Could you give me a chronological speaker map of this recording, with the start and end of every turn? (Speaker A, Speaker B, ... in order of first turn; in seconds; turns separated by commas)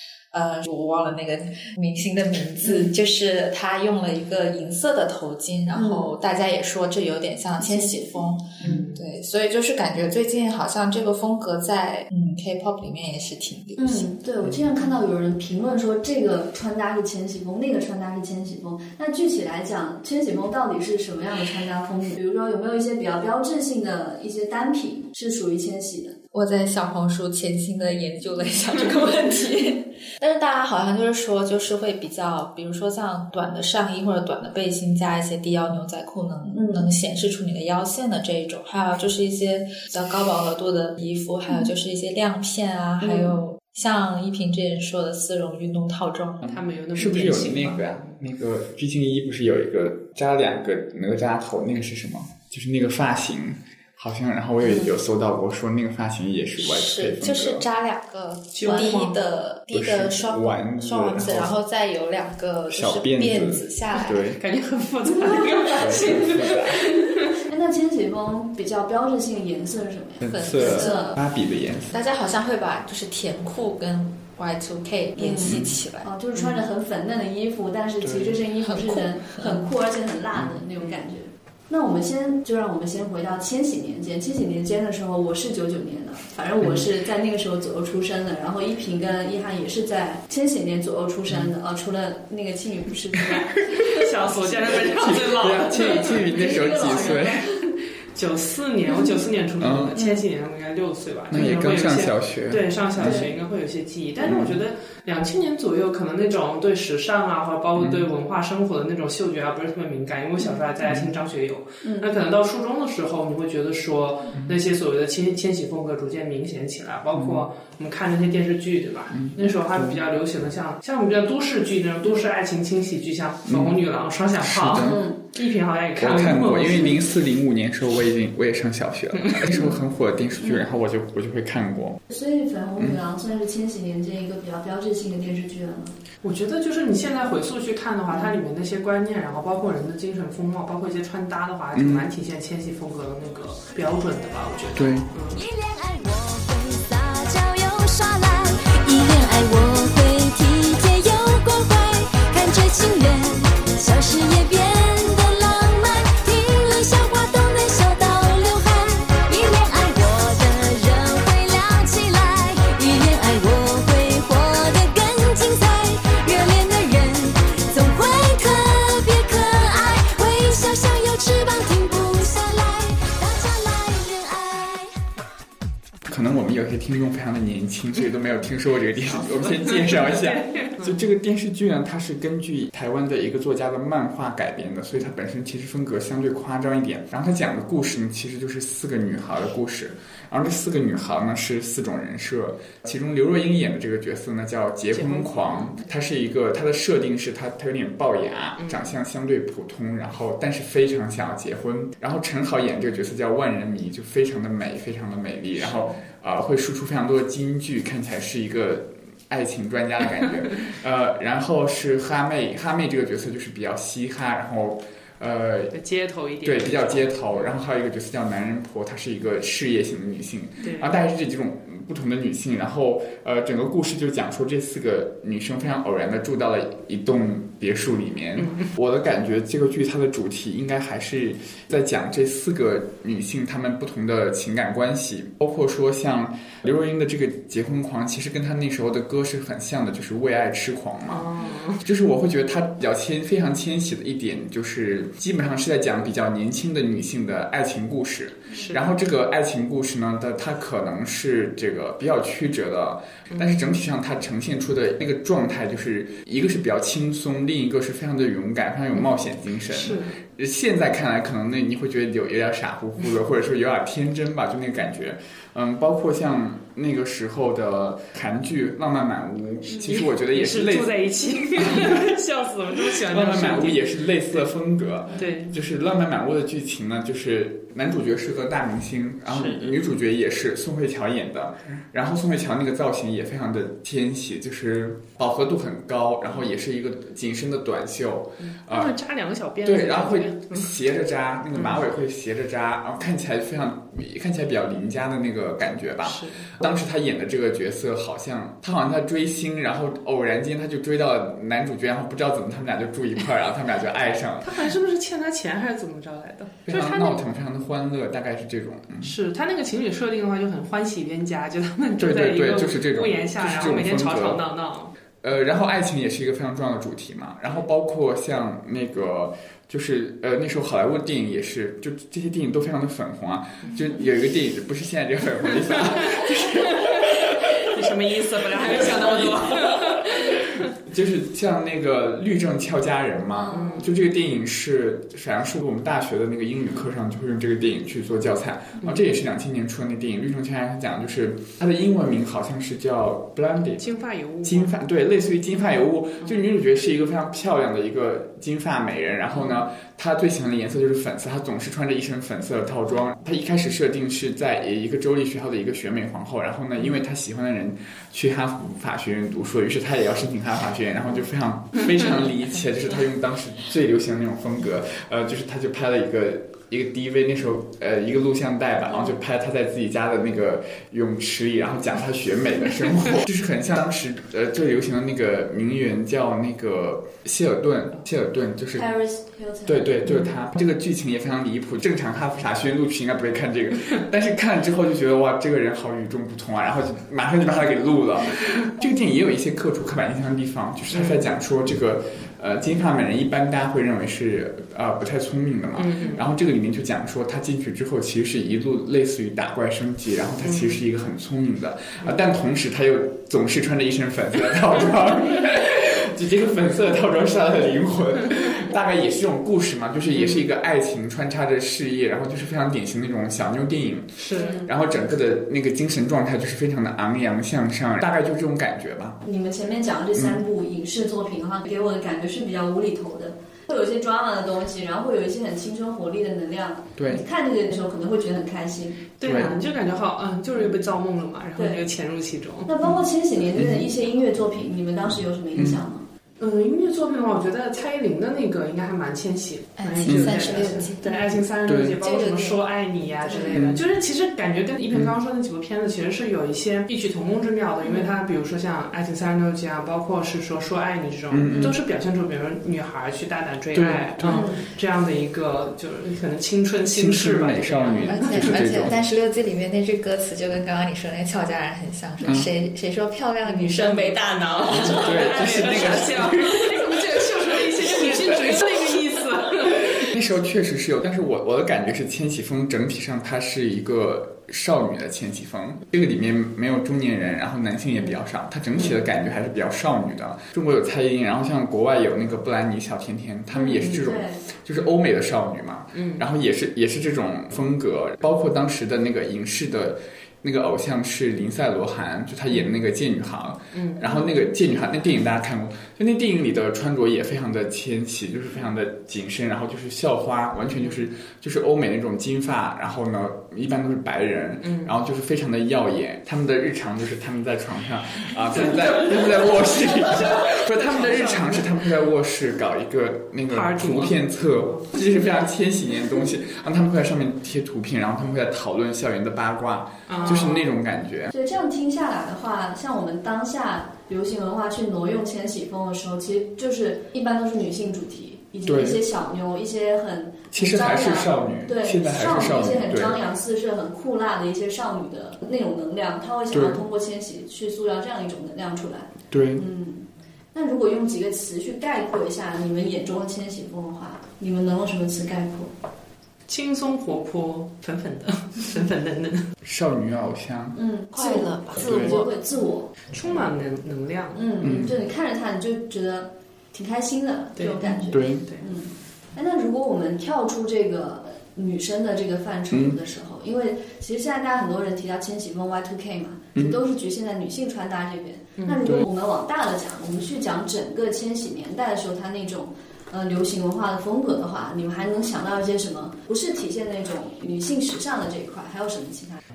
Speaker A: 0.3-14.1, Speaker B: 5.7-6.1, Speaker B: 7.6-8.8, Speaker C: 8.6-9.0, Speaker B: 13.8-26.2, Speaker A: 26.3-46.4, Speaker B: 36.5-36.9, Speaker B: 43.0-43.4, Speaker D: 46.4-57.6, Speaker C: 46.5-48.1, Speaker A: 56.6-64.3, Speaker C: 58.5-59.1, Speaker D: 59.7-61.5, Speaker D: 62.7-64.4, Speaker C: 64.4-67.4, Speaker D: 65.6-66.9, Speaker B: 67.4-71.1, Speaker D: 70.2-72.0, Speaker A: 70.2-71.2, Speaker A: 71.9-76.1, Speaker B: 75.2-93.7, Speaker D: 75.4-75.8, Speaker D: 78.0-78.4, Speaker A: 78.6-79.6, Speaker D: 93.3-94.0, Speaker C: 93.8-96.3, Speaker D: 94.7-97.5, Speaker B: 95.6-97.7, Speaker C: 98.1-127.0, Speaker D: 99.6-100.0, Speaker B: 99.9-100.2, Speaker D: 101.3-103.2, Speaker B: 103.0-103.3, Speaker D: 104.2-104.6, Speaker D: 107.8-108.1, Speaker D: 110.8-111.1, Speaker B: 111.8-112.1, Speaker D: 117.1-117.4, Speaker D: 119.1-120.0, Speaker D: 123.5-123.8, Speaker D: 124.4-125.0, Speaker B: 124.8-125.2, Speaker D: 126.0-132.0, Speaker C: 129.1-129.8, Speaker B: 130.4-130.6, Speaker B: 132.1-135.9, Speaker C: 136.2-145.4, Speaker D: 141.7-142.1, Speaker D: 144.8-145.1, Speaker E: 145.3-174.9, Speaker D: 176.1-215.7, Speaker C: 179.0-181.0, Speaker C: 194.9-195.8, Speaker C: 198.6-198.9, Speaker C: 205.6-205.9, Speaker C: 215.7-217.5, Speaker D: 216.4-271.0, Speaker C: 220.6-221.0, Speaker C: 228.4-228.7, Speaker C: 241.1-241.8, Speaker C: 248.5-248.9, Speaker C: 253.3-253.6, Speaker C: 259.7-260.1, Speaker C: 269.8-274.5, Speaker D: 271.6-272.0, Speaker D: 273.0-288.9, Speaker C: 275.1-275.6, Speaker C: 279.3-279.8, Speaker C: 288.4-290.8, Speaker D: 289.6-304.7, Speaker C: 291.5-291.9, Speaker C: 296.0-296.5, Speaker C: 304.4-307.2, Speaker D: 306.7-309.1, Speaker C: 309.0-314.9, Speaker D: 312.0-314.4, Speaker D: 315.2-327.7, Speaker C: 325.7-330.5, Speaker D: 328.5-378.9, Speaker B: 333.4-333.9, Speaker C: 333.5-333.9, Speaker C: 343.8-344.7, Speaker C: 349.3-349.6, Speaker B: 378.8-379.9, Speaker D: 379.6-419.2, Speaker C: 390.9-391.3, Speaker C: 395.7-396.2, Speaker C: 400.4-400.8, Speaker C: 410.1-410.5, Speaker C: 414.2-414.6, Speaker B: 414.3-414.7, Speaker B: 419.2-429.1, Speaker D: 427.0-427.2, Speaker C: 429.2-432.7, Speaker D: 429.2-429.5, Speaker B: 431.6-431.8, Speaker B: 432.6-436.0, Speaker D: 433.6-433.9, Speaker D: 435.6-435.8, Speaker C: 436.4-458.8, Speaker A: 439.8-441.4, Speaker D: 440.0-440.4, Speaker D: 441.6-442.0, Speaker A: 442.0-442.6, Speaker A: 443.2-443.5, Speaker B: 443.3-443.6, Speaker D: 443.5-443.8, Speaker B: 447.8-448.1, Speaker D: 451.3-451.8, Speaker D: 453.7-454.4, Speaker B: 454.2-454.6, Speaker D: 456.9-459.0, Speaker A: 458.0-465.8, Speaker D: 462.2-462.5, Speaker C: 463.4-470.1, Speaker D: 464.7-466.8, Speaker A: 467.8-468.2, Speaker D: 469.7-521.3, Speaker C: 478.8-479.0, Speaker B: 483.5-484.4, Speaker C: 483.8-484.1, Speaker C: 485.9-486.2, Speaker C: 493.7-494.1, Speaker C: 500.8-501.0, Speaker C: 504.6-504.9, Speaker C: 508.5-511.8, Speaker C: 513.5-514.9, Speaker C: 520.1-520.7, Speaker B: 520.1-520.5, Speaker B: 521.3-545.7, Speaker D: 528.6-529.0, Speaker D: 530.5-533.2, Speaker D: 536.5-536.8, Speaker D: 539.3-539.6, Speaker C: 546.5-549.5, Speaker D: 549.6-550.8, Speaker B: 550.7-552.9, Speaker A: 551.1-552.3, Speaker D: 551.8-552.1, Speaker C: 553.1-554.5, Speaker B: 554.3-579.4, Speaker D: 554.6-555.0, Speaker C: 557.5-558.7, Speaker D: 558.1-558.5, Speaker D: 562.7-563.0, Speaker D: 566.5-566.8